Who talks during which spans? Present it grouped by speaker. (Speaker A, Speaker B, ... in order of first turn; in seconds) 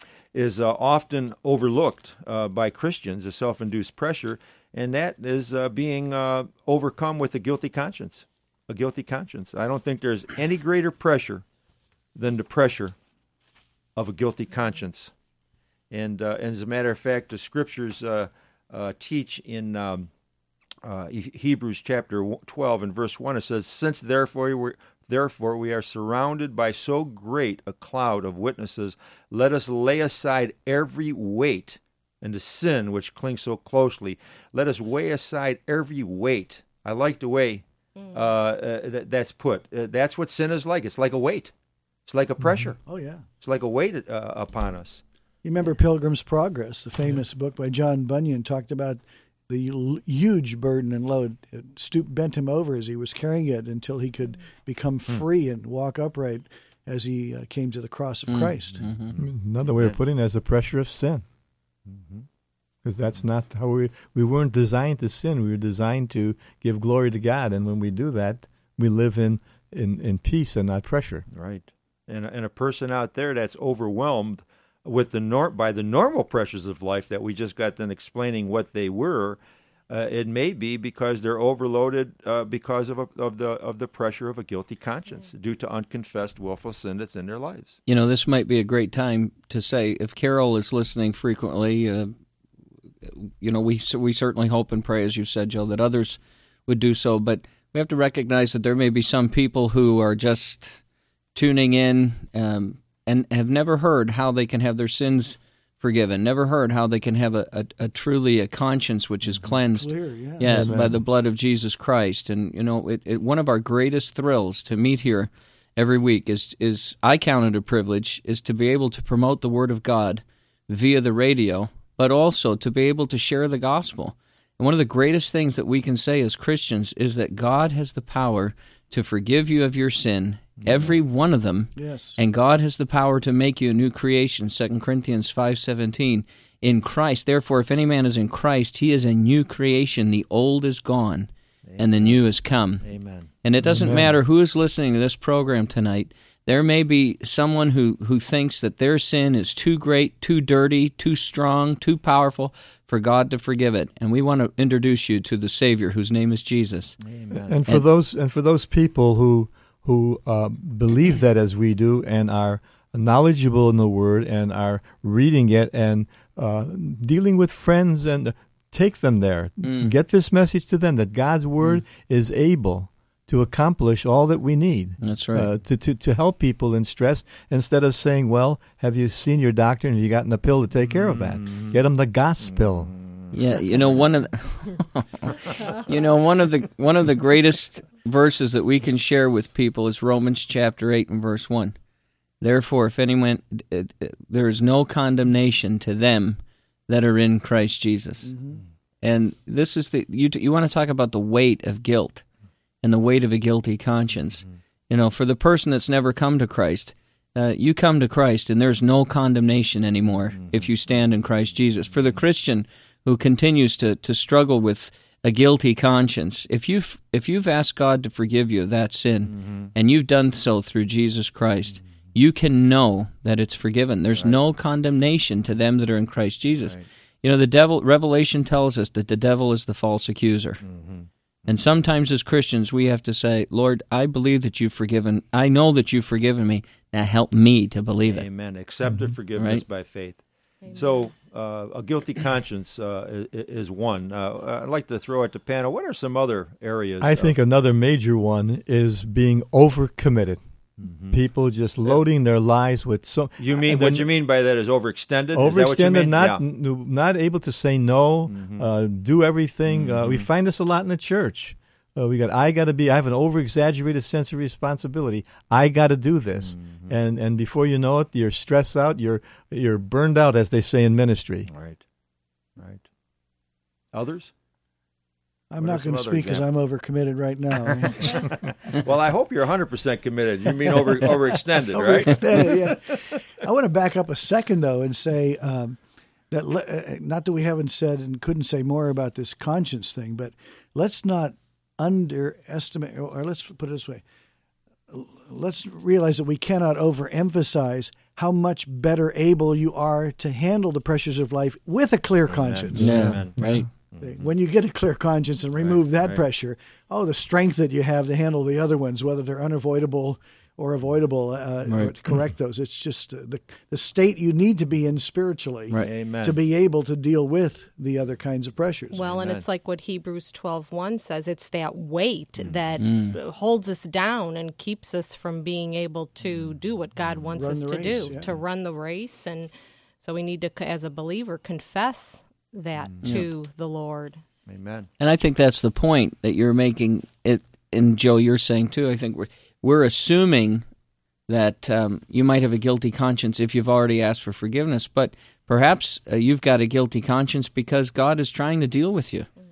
Speaker A: 0.3-11.4, 12.2-13.0, 14.0-15.1, 15.9-20.1, 20.8-41.5, 42.1-42.8, 43.4-45.0, 58.8-60.0, 61.9-62.3, 71.3-87.8, 130.6-131.0, 141.7-142.2, 142.8-143.3, 157.0-157.7, 180.9-181.8, 182.4-183.3, 210.4-210.7, 219.3-219.7, 226.6-226.9, 230.6-231.6, 238.1-247.4, 250.8-251.2, 253.4-256.4, 258.3-258.7, 259.7-260.3, 266.4-266.9, 271.5-271.8, 272.6-272.9, 273.9-274.3, 275.6-276.5, 277.6-283.1, 302.2-304.3, 305.6-306.2, 315.8-316.4, 319.1-319.4, 326.3-326.6, 328.1-328.4, 332.8-333.2, 334.5-334.9
Speaker B: 42.9-43.2, 45.4-58.9, 109.7-110.7, 131.8-132.2, 198.2-198.6, 275.5-278.2, 281.7-285.8, 286.3-294.0, 294.9-303.2, 304.0-319.1, 327.4-328.2
Speaker C: 58.3-59.1, 87.9-92.1, 93.1-100.8, 101.3-142.9, 143.4-157.0, 169.6-169.9, 175.0-175.5, 183.3-191.8, 192.4-198.3, 199.0-202.2, 202.8-230.6, 231.5-238.3, 239.4-239.6, 302.8-303.7, 311.7-311.9, 322.8-323.2, 335.0-340.6, 341.3-349.3
Speaker D: 59.2-61.2, 62.8-71.3, 110.4-111.0, 143.6-144.1, 157.3-182.9, 238.9-239.1, 247.0-250.4, 251.0-254.1, 255.3-271.5, 302.8-303.7
Speaker E: 318.9-334.2